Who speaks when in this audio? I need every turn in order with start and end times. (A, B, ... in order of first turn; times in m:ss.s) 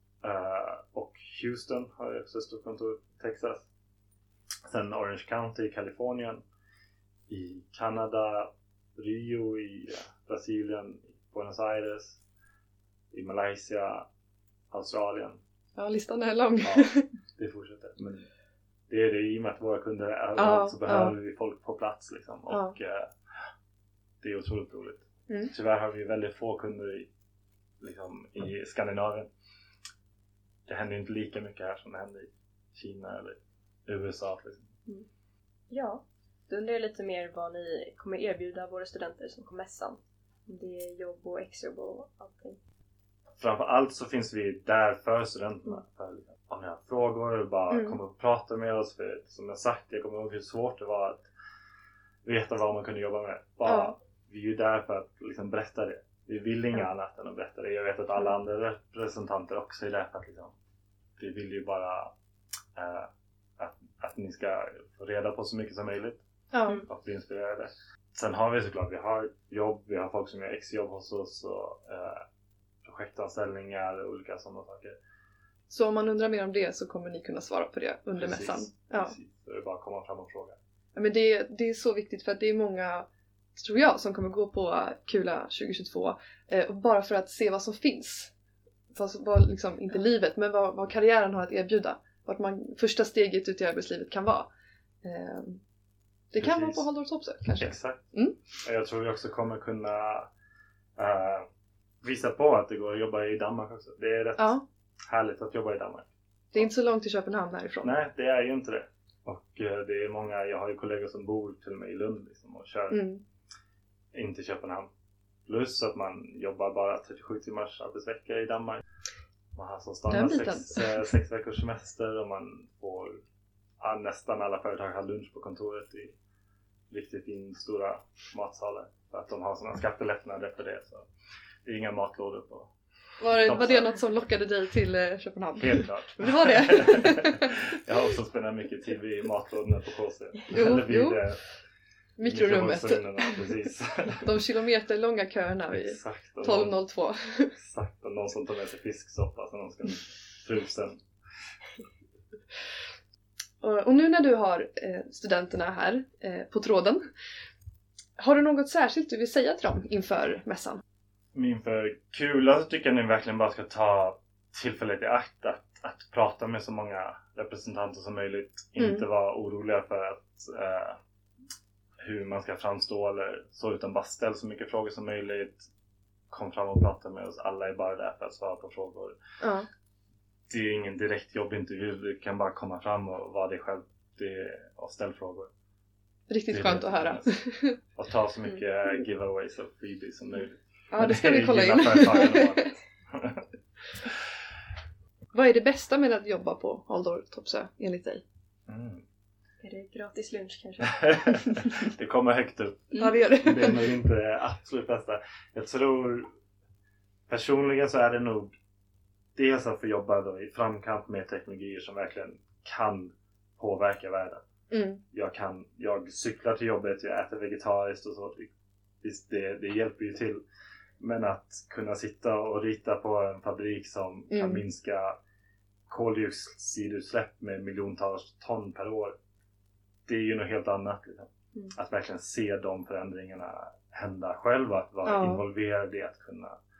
0:00.2-0:03.6 A
0:04.7-0:06.4 A
0:07.3-0:12.2 A
0:13.1-0:14.0 A
0:14.7-0:15.4 A
0:15.8-0:17.1 B
0:16.6-0:18.3 A
0:18.9-0:23.1 A
0:20.4-0:21.1 B
0:22.5-0:22.8 B
0:24.2-0:27.1 A
0:27.8-0:29.3 A
0:30.6-0:34.7 A
0:35.7-0:42.6 C
0:43.4-0:51.2 A
0:47.7-0:48.0 B
0:52.2-1:00.5 A
0:53.6-0:53.9 B
1:01.2-1:02.1 A
1:02.7-1:06.2 A
1:06.5-1:06.8 B
1:06.9-1:12.2 A
1:12.8-1:15.0 A
1:15.7-1:19.1 B
1:18.2-1:20.6 A
1:20.9-1:28.3 B
1:28.9-1:34.5 B
1:35.0-1:35.6 B
1:36.3-1:38.3 B
1:36.4-1:36.8 A
1:37.5-1:38.0 A
1:38.6-1:40.3 A
1:41.0-1:41.5 A
1:42.0-1:46.6 A
1:46.5-1:47.9 B
1:47.8-1:53.0 A
1:52.9-1:53.2 B
1:54.1-1:54.9 A
1:55.4-1:58.8 A
1:59.5-2:03.2 A
2:00.1-2:01.0 B
2:03.8-2:06.1 A
2:06.9-2:11.0 A
2:11.6-2:12.7 A
2:13.2-2:17.6 B
2:13.3-2:13.9 A
2:15.6-2:21.4 A
2:20.5-2:21.2 B
2:22.2-2:23.5 B
2:22.2-2:24.3 A
2:24.2-2:27.5 B
2:25.7-2:26.7 A
2:27.5-2:31.0 A
2:33.6-2:37.0 B
2:38.2-2:40.8 B
2:41.3-2:51.0 A
2:48.8-2:49.0 B
2:52.0-2:55.7 A
2:56.3-2:59.2 A
2:59.4-2:59.7 B
3:00.5-3:05.5 A
3:06.3-3:07.8 B
3:06.5-3:07.3 A
3:07.9-3:13.4 A
3:10.9-3:12.7 B
3:15.3-3:18.2 B
3:18.7-3:19.0 A
3:19.6-3:21.0 C
3:20.9-3:26.3 A
3:23.0-3:23.8 B
3:27.3-3:28.5 A
3:29.4-3:34.4 A
3:34.7-3:35.0 B
3:35.1-3:38.5 A
3:39.0-3:40.4 A
3:41.0-3:45.2 A
3:44.3-3:44.6 B
3:45.9-3:49.2 A
3:50.1-3:56.6 A
3:55.0-3:55.4 B